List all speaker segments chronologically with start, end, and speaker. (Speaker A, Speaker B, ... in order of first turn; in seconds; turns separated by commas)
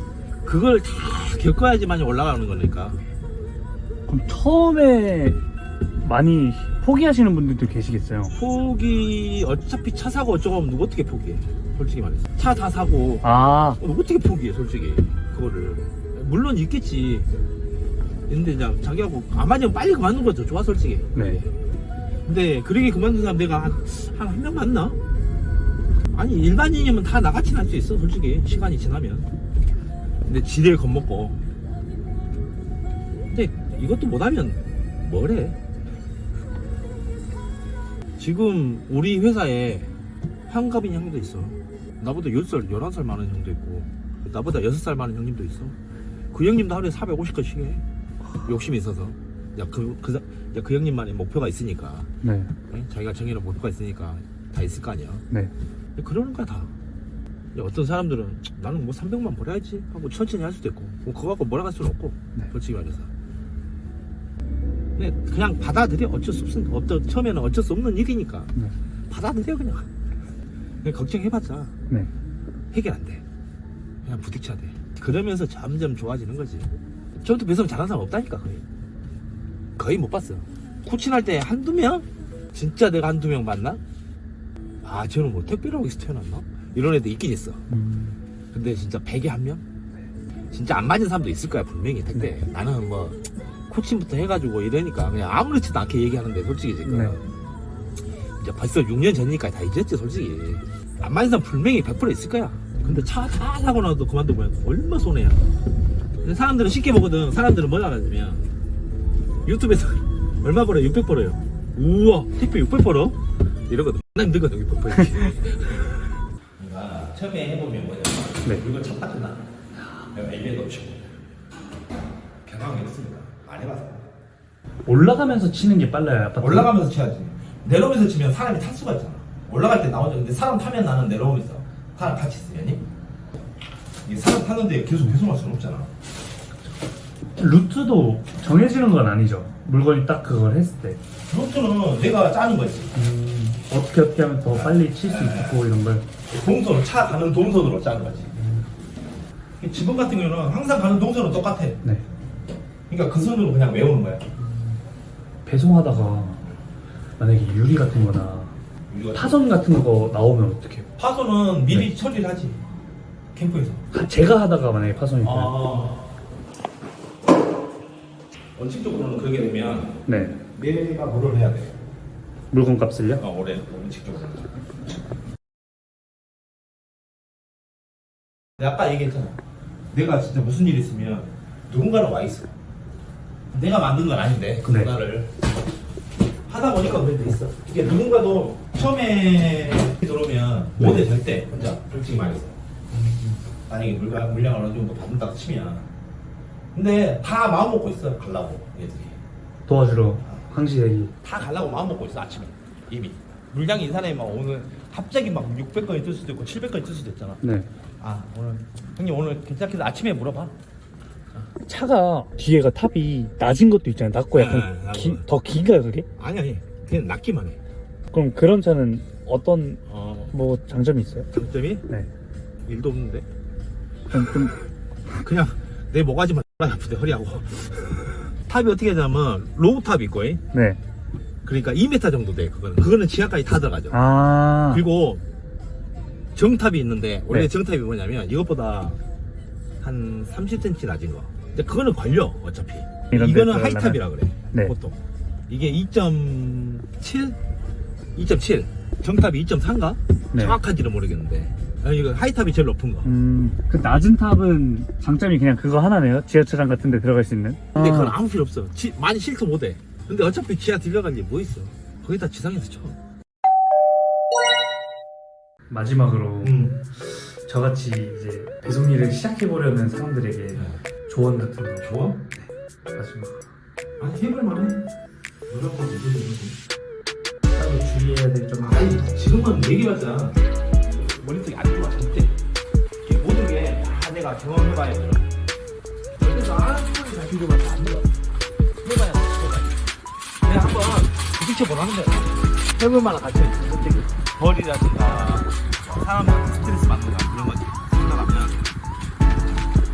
Speaker A: 0.4-3.0, Speaker B: 4.1-5.4, Speaker B: 6.0-8.3, Speaker A: 8.3-17.3, Speaker B: 13.2-13.8, Speaker A: 18.3-21.5, Speaker B: 21.1-21.4, Speaker A: 22.3-25.0, Speaker A: 26.1-29.3, Speaker A: 30.3-31.4, Speaker A: 33.3-35.6, Speaker A: 38.2-39.9, Speaker A: 40.5-45.8, Speaker A: 46.3-47.8, Speaker A: 48.5-52.1, Speaker B: 52.2-52.5, Speaker A: 52.7-55.2, Speaker A: 56.0-56.7, Speaker A: 57.5-63.1, Speaker A: 65.0-68.5, Speaker A: 69.1-69.9, Speaker A: 70.8-71.8, Speaker A: 72.7-73.2, Speaker A: 74.0-78.6, Speaker A: 79.8-83.8, Speaker A: 84.8-87.7, Speaker B: 87.7-88.2, Speaker A: 88.5-89.6, Speaker A: 90.5-97.3, Speaker B: 96.8-97.2, Speaker A: 98.4-105.5, Speaker A: 106.2-108.5, Speaker A: 109.5-119.5, Speaker A: 120.1-121.1, Speaker A: 122.5-124.1, Speaker B: 124.9-126.7, Speaker A: 126.4-132.8, Speaker A: 134.1-135.9, Speaker B: 137.4-141.0, Speaker A: 141.3-143.0, Speaker B: 142.9-146.1, Speaker A: 144.5-145.6, Speaker A: 146.3-148.3, Speaker B: 148.4-148.7, Speaker A: 149.6-151.8, Speaker A: 152.9-154.3, Speaker B: 154.4-154.8, Speaker B: 155.5-156.4, Speaker B: 157.2-158.5, Speaker A: 158.9-159.4, Speaker B: 159.1-160.9, Speaker A: 161.0-162.6, Speaker A: 163.3-163.8, Speaker B: 163.9-165.5, Speaker A: 165.2-166.0, Speaker A: 168.6-170.0, Speaker B: 170.1-170.4, Speaker A: 170.5-171.8, Speaker B: 172.5-173.2, Speaker A: 173.2-174.6, Speaker A: 178.6-179.4, Speaker A: 179.9-182.6, Speaker A: 183.5-185.4, Speaker B: 184.7-184.9, Speaker A: 186.5-192.6, Speaker A: 193.7-195.9, Speaker A: 196.7-199.2, Speaker B: 199.7-201.1, Speaker A: 201.2-207.4, Speaker B: 207.4-207.7, Speaker A: 208.0-210.6, Speaker B: 211.7-216.1, Speaker A: 214.3-215.3, Speaker A: 216.2-217.6, Speaker B: 218.1-221.3, Speaker A: 219.9-220.3, Speaker A: 221.3-221.8, Speaker A: 222.7-223.3, Speaker B: 224.1-224.6, Speaker A: 224.1-224.6, Speaker A: 225.2-230.4, Speaker B: 230.5-230.8, Speaker A: 231.4-234.0, Speaker B: 233.9-234.8, Speaker A: 234.7-235.2, Speaker A: 236.3-239.0, Speaker A: 239.8-247.4, Speaker B: 243.1-244.0, Speaker A: 248.2-253.1, Speaker B: 250.3-250.6, Speaker B: 253.1-258.2, Speaker A: 257.8-263.0, Speaker B: 265.7-271.9, Speaker A: 266.4-266.8, Speaker A: 270.5-270.8, Speaker A: 271.8-272.2, Speaker B: 272.4-273.4, Speaker A: 274.0-274.8, Speaker A: 275.5-276.6, Speaker B: 277.6-279.1, Speaker A: 278.6-282.4, Speaker A: 283.0-285.3, Speaker A: 286.2-288.1, Speaker A: 288.8-289.8, Speaker A: 290.4-298.6